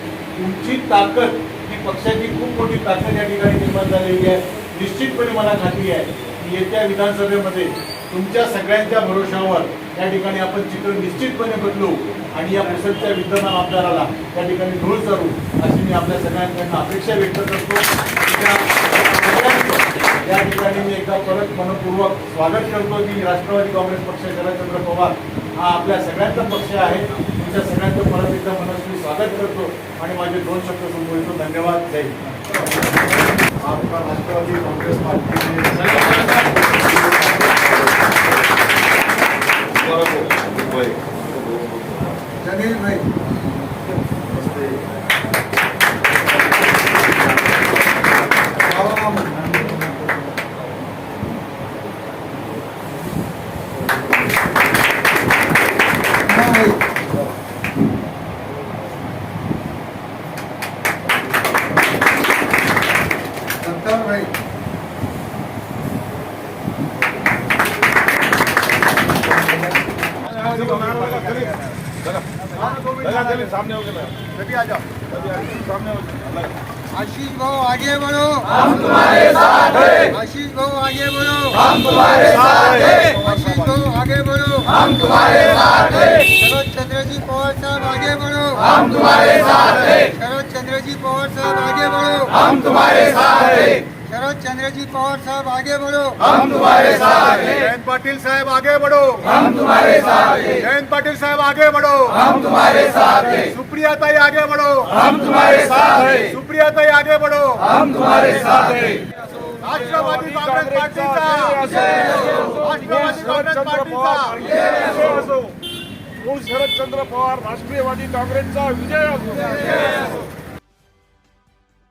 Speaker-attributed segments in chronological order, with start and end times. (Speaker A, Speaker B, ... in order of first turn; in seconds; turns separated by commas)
Speaker A: 0.3-32.1, Speaker A: 33.6-36.7, Speaker B: 35.8-36.3, Speaker B: 39.8-41.9, Speaker C: 42.4-43.0, Speaker C: 48.6-49.5, Speaker C: 56.2-56.8, Speaker C: 63.6-64.3, Speaker B: 70.2-74.2, Speaker A: 70.4-71.5, Speaker A: 72.6-73.5, Speaker A: 74.3-74.8, Speaker B: 75.1-76.5, Speaker C: 76.9-96.2, Speaker A: 96.2-108.0, Speaker B: 108.3-109.0, Speaker A: 109.6-114.5, Speaker B: 109.7-115.4, Speaker B: 116.2-119.9